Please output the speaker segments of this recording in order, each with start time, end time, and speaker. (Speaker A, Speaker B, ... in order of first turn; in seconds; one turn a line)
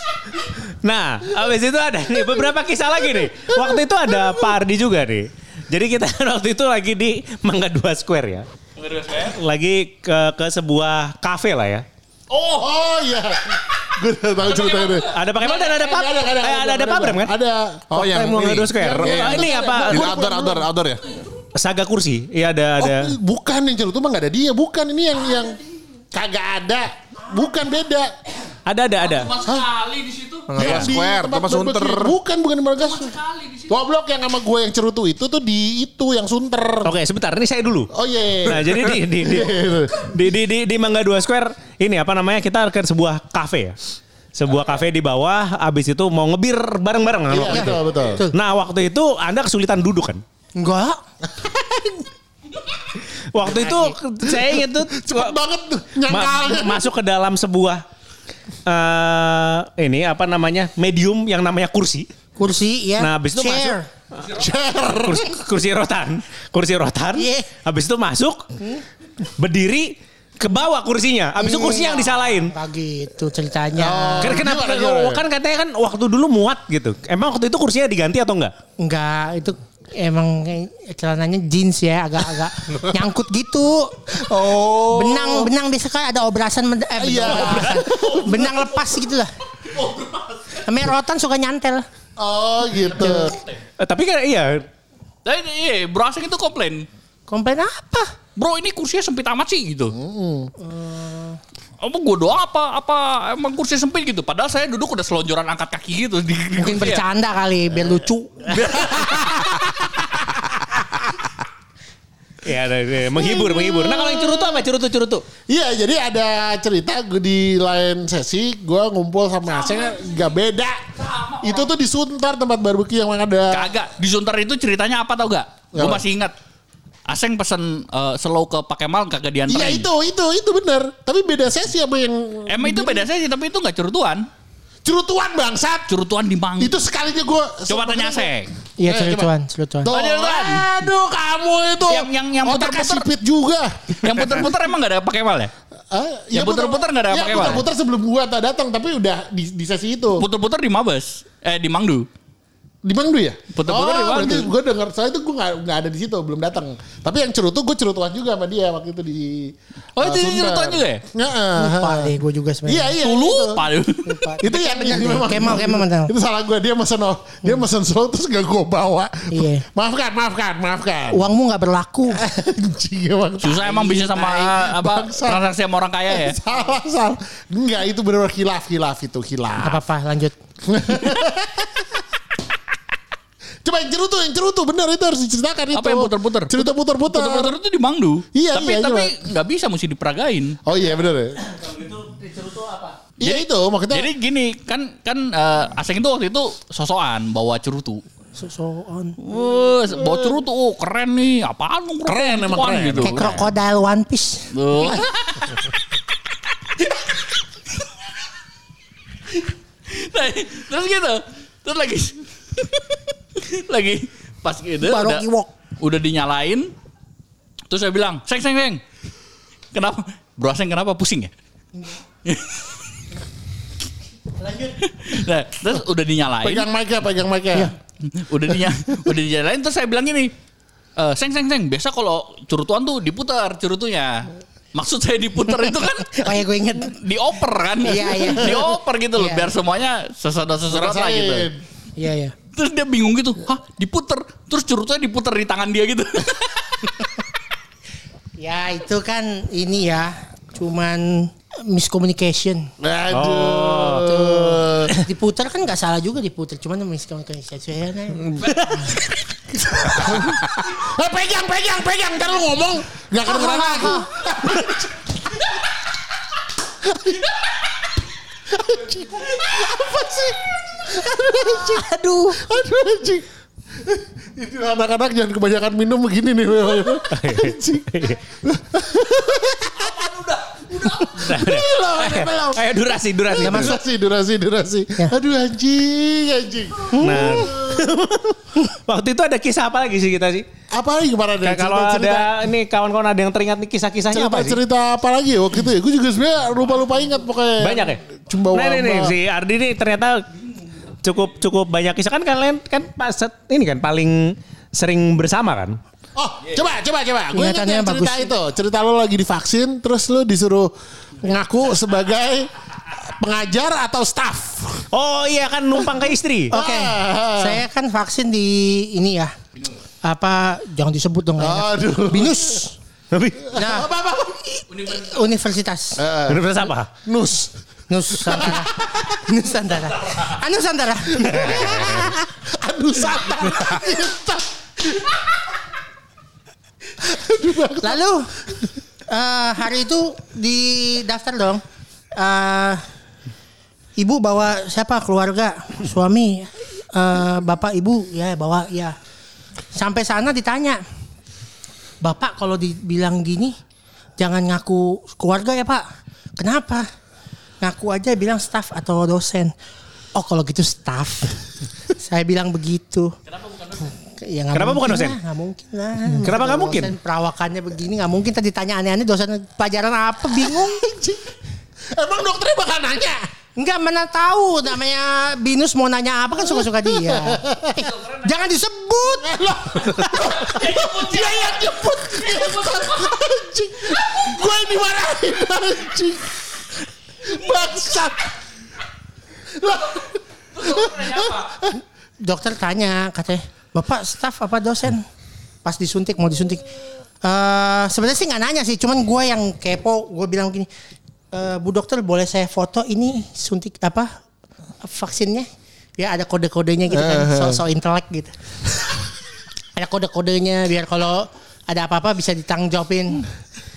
Speaker A: 0.4-8.5
Speaker B: 8.8-9.4
Speaker A: 9.2-11.8
Speaker B: 12.3-12.7
Speaker C: 12.6-18.2
Speaker B: 14.5-15.6
Speaker A: 15.1-17.3
Speaker D: 17.9-21.0
Speaker A: 18.0-20.1
Speaker C: 18.8-20.2
Speaker B: 19.3-19.7
Speaker A: 21.5-23.1
Speaker C: 22.8-25.6
Speaker C: 26.1-28.1
Speaker A: 28.7-29.4
Speaker B: 29.0-30.5
Speaker D: 30.5-32.1
Speaker C: 30.6-33.2
Speaker B: 32.8-33.7
Speaker C: 33.7-36.9
Speaker A: 36.9-37.9
Speaker C: 37.9-40.0
Speaker A: 38.5-43.8
Speaker A: 44.4-47.8
Speaker C: 47.3-48.2
Speaker E: 47.5-48.3
Speaker A: 48.3-50.2
Speaker E: 50.6-51.0
Speaker C: 51.3-52.0
Speaker A: 53.3-55.4
Speaker C: 54.3-56.9
Speaker A: 56.1-57.8
Speaker A: 58.7-62.1
Speaker E: 62.4-63.9
Speaker A: 63.0-64.3
Speaker C: 64.2-65.4
Speaker A: 64.9-68.4
Speaker E: 67.2-67.5
Speaker A: 69.4-72.5
Speaker E: 71.4-74.5
Speaker C: 73.8-75.2
Speaker A: 74.2-78.5
Speaker E: 78.8-84.2
Speaker C: 84.1-85.5
Speaker E: 84.9-89.3
Speaker C: 87.0-88.5
Speaker B: 89.7-90.6
Speaker E: 90.6-91.9
Speaker C: 92.2-93.4
Speaker E: 93.0-93.3
Speaker B: 93.1-93.6
Speaker A: 93.8-94.7
Speaker B: 95.2-96.9
Speaker E: 97.3-98.1
Speaker B: 98.4-99.9
Speaker C: 99.9-100.5
Speaker E: 100.6-101.4
Speaker B: 101.8-107.0
Speaker E: 106.6-108.8
Speaker C: 108.5-111.1
Speaker A: 112.4-115.2
Speaker C: 115.5-120.9
Speaker B: 119.5-120.4
Speaker B: 120.9-121.7
Speaker C: 121.4-123.7
Speaker B: 123.5-126.3
Speaker C: 125.7-126.0
Speaker B: 127.1-129.9
Speaker C: 129.5-133.1
Speaker B: 132.5-134.3
Speaker C: 134.8-135.9
Speaker B: 135.9-136.8
Speaker C: 136.6-138.3
Speaker B: 137.7-138.5
Speaker E: 138.8-139.9
Speaker C: 138.9-139.3
Speaker C: 139.8-144.5
Speaker B: 139.9-140.7
Speaker B: 141.9-143.1
Speaker B: 144.0-145.5
Speaker C: 145.9-150.2
Speaker B: 146.3-147.7
Speaker B: 150.2-152.1
Speaker C: 152.8-162.1
Speaker B: 153.6-154.5
Speaker B: 160.0-161.0
Speaker E: 161.6-163.0
Speaker C: 162.7-163.7
Speaker B: 163.0-164.4
Speaker E: 164.1-166.1
Speaker C: 164.4-171.2
Speaker E: 169.3-169.7
Speaker E: 171.1-172.2
Speaker C: 172.1-175.5
Speaker B: 173.4-176.4
Speaker C: 176.1-179.8
Speaker E: 179.6-180.3
Speaker C: 180.7-181.9
Speaker C: 183.6-187.6
Speaker B: 185.7-190.6
Speaker C: 188.3-189.2
Speaker C: 190.7-191.4
Speaker A: 191.5-193.0
Speaker C: 193.2-194.1
Speaker B: 193.2-198.0
Speaker E: 198.4-199.2
Speaker B: 199.2-203.4
Speaker C: 202.1-203.4
Speaker E: 203.0-204.5
Speaker B: 204.5-205.6
Speaker B: 209.9-215.2
Speaker E: 214.8-215.5
Speaker B: 215.8-216.7
Speaker B: 217.7-218.8
Speaker B: 219.7-221.3
Speaker B: 222.2-222.6
Speaker E: 224.4-224.7
Speaker B: 224.8-226.7
Speaker C: 226.4-227.7
Speaker B: 228.1-230.3
Speaker B: 231.0-241.5
Speaker E: 236.1-237.0
Speaker E: 237.8-239.5
Speaker C: 240.7-241.6
Speaker E: 242.0-242.3
Speaker B: 242.5-246.9
Speaker E: 248.4-252.7
Speaker C: 252.8-255.0
Speaker A: 253.1-254.1
Speaker E: 253.9-258.9
Speaker A: 258.6-258.9
Speaker C: 259.9-264.9
Speaker E: 263.2-264.1
Speaker C: 266.9-267.2
Speaker C: 268.5-271.8
Speaker E: 271.2-272.4
Speaker C: 272.4-273.3
Speaker C: 273.9-280.1
Speaker A: 277.1-278.2
Speaker B: 279.8-281.1
Speaker C: 280.8-282.7
Speaker A: 281.1-283.7
Speaker C: 283.4-287.8
Speaker E: 283.4-283.8
Speaker E: 286.9-287.5
Speaker A: 287.0-290.5
Speaker C: 290.7-292.3
Speaker A: 291.4-294.6
Speaker C: 294.1-299.1
Speaker A: 297.6-300.3
Speaker A: 301.0-305.8
Speaker C: 306.2-314.9
Speaker E: 307.3-308.3
Speaker A: 314.9-316.5
Speaker E: 316.5-319.3
Speaker C: 316.5-317.6
Speaker E: 320.0-322.8
Speaker C: 321.4-322.6
Speaker A: 323.1-323.5
Speaker C: 323.5-324.6
Speaker E: 323.5-323.9
Speaker E: 324.6-326.0
Speaker B: 324.7-325.1
Speaker C: 326.0-327.5
Speaker A: 326.3-326.9
Speaker E: 327.9-331.9
Speaker C: 328.1-329.2
Speaker C: 331.2-335.1
Speaker A: 331.3-332.1
Speaker C: 337.0-338.0
Speaker E: 337.8-338.3
Speaker E: 339.1-341.6
Speaker E: 342.1-342.8
Speaker E: 344.0-349.0
Speaker E: 349.7-350.8
Speaker E: 352.0-353.6
Speaker E: 354.2-355.9
Speaker E: 356.4-356.9
Speaker E: 357.6-359.5
Speaker E: 360.1-363.1
Speaker B: 363.3-363.9
Speaker E: 363.9-370.9
Speaker A: 364.5-365.2
Speaker A: 366.2-366.9
Speaker C: 370.8-371.2
Speaker C: 371.9-373.3
Speaker E: 373.6-379.4
Speaker C: 377.0-377.9
Speaker B: 377.8-378.3
Speaker C: 379.2-386.5
Speaker B: 380.0-383.2
Speaker C: 387.2-388.3
Speaker C: 389.6-391.8
Speaker B: 390.5-391.5
Speaker E: 392.2-395.1
Speaker E: 395.6-396.6
Speaker E: 397.2-400.7
Speaker E: 401.3-404.1
Speaker E: 404.8-408.3
Speaker C: 406.9-407.6
Speaker E: 409.8-413.3